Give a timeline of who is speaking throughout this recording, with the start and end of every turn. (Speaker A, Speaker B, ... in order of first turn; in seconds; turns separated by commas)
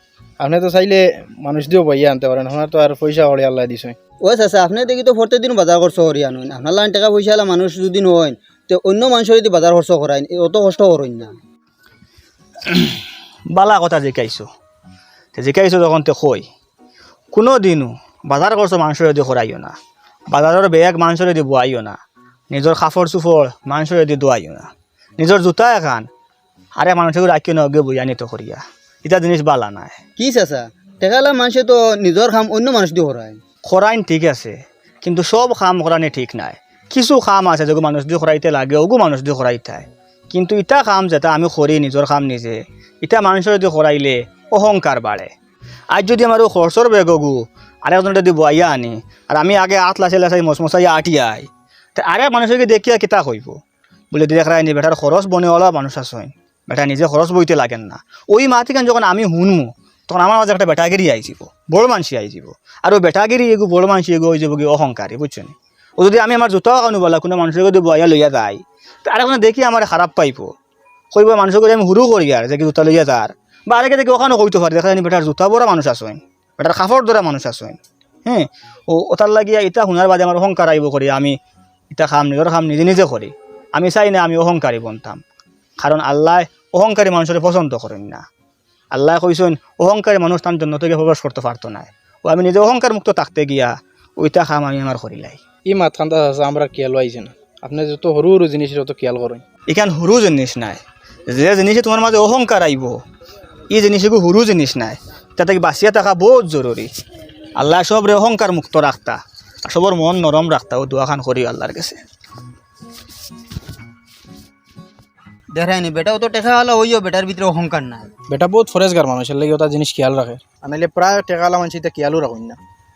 Speaker A: 0.4-4.0, Speaker B: 4.2-11.3, Speaker C: 12.7-13.0, Speaker C: 13.5-14.5, Speaker C: 15.3-16.5, Speaker C: 17.3-19.8, Speaker C: 20.3-22.0, Speaker C: 22.5-26.1, Speaker C: 26.8-30.0, Speaker B: 30.2-33.4, Speaker C: 33.7-45.3, Speaker C: 45.9-53.6, Speaker C: 54.1-70.5, Speaker C: 71.1-81.4, Speaker C: 81.9-85.2, Speaker C: 85.8-88.2, Speaker C: 88.9-95.4, Speaker A: 95.7-99.4, Speaker C: 99.7-103.0, Speaker C: 103.7-106.9, Speaker C: 107.6-112.0, Speaker B: 115.5-118.1, Speaker A: 118.3-122.6